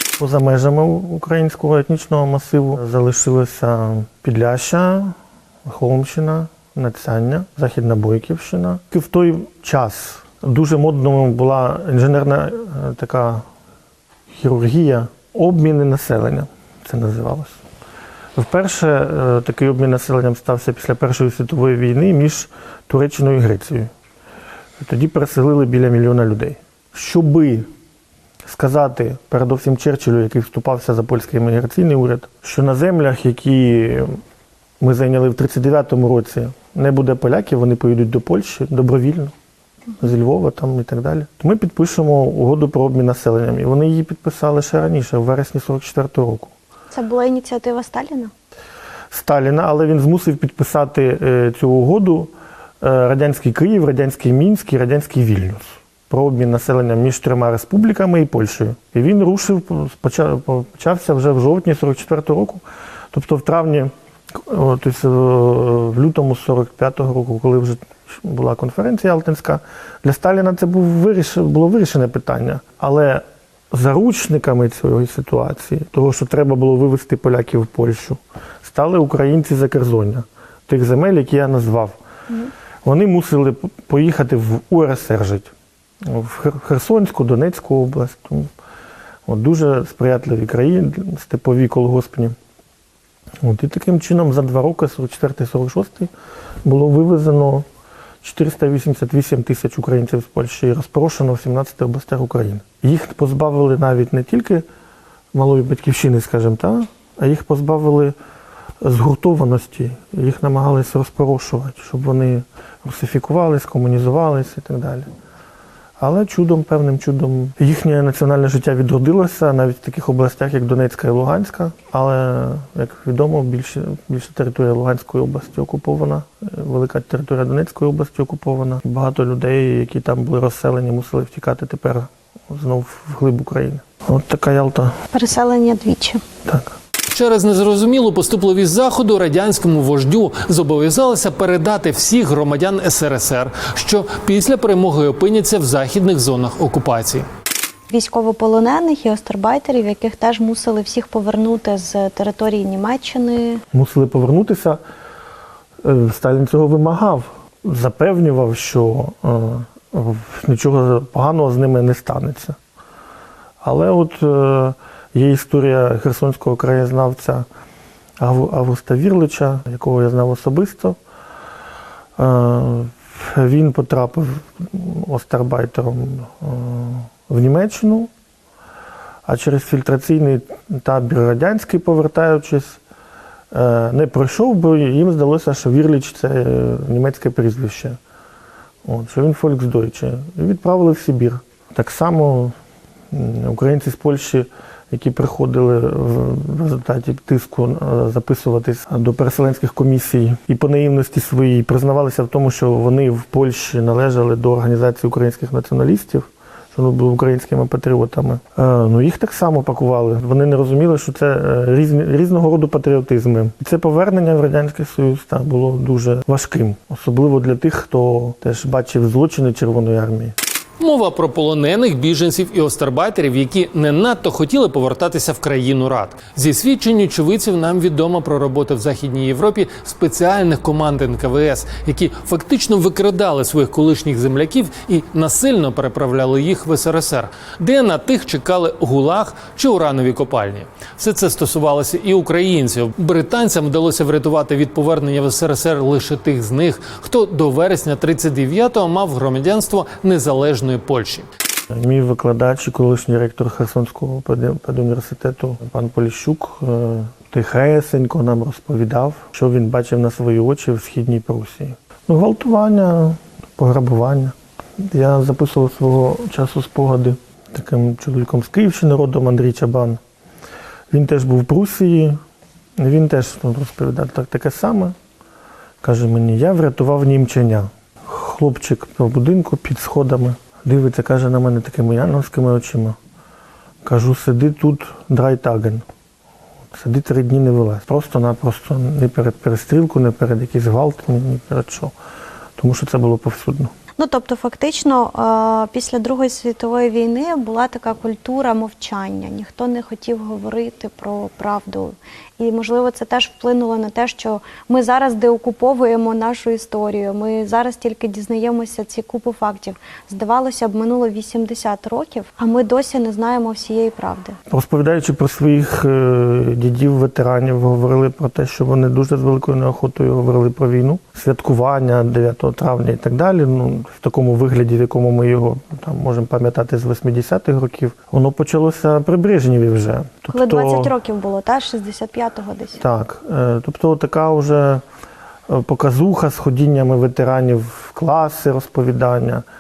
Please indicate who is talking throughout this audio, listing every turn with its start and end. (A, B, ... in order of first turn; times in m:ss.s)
0:00.2-0:13.4 A
0:14.3-0:17.6 A
0:18.4-0:23.9 A
0:24.8-0:27.7 A
0:28.4-0:34.2 A
0:34.8-0:39.3 A
0:40.0-0:46.5 A
0:46.9-0:48.3 B
0:49.1-1:22.0 A
1:22.8-1:28.5 A
1:29.3-1:32.4 A
1:33.4-1:36.1 A
1:36.6-1:37.7 A
1:38.2-1:44.6 A
1:45.3-1:48.2 A
1:48.8-1:55.1 A
1:56.0-2:15.0 A
2:15.1-2:16.2 B
2:17.1-2:27.3 C
2:27.9-2:33.6 B
2:33.7-2:34.8 A
2:35.8-2:42.6 A
2:43.6-2:47.5 A
2:48.2-2:51.0 A
2:52.2-2:58.1 A
2:59.3-3:02.8 A
3:03.5-3:08.0 A
3:08.8-3:12.6 A
3:13.1-3:40.4 A
3:40.8-4:11.3 C
4:11.7-4:30.0 A
4:30.9-4:32.2 A
4:32.8-4:35.0 A
4:35.8-4:43.0 A
4:43.8-4:45.8 A
4:46.7-4:51.9 A
4:52.6-4:53.7 A
4:54.0-5:14.4 B
5:14.5-5:30.9 A
5:30.3-5:32.8 B
5:32.8-5:34.8 A
5:35.5-5:39.4 A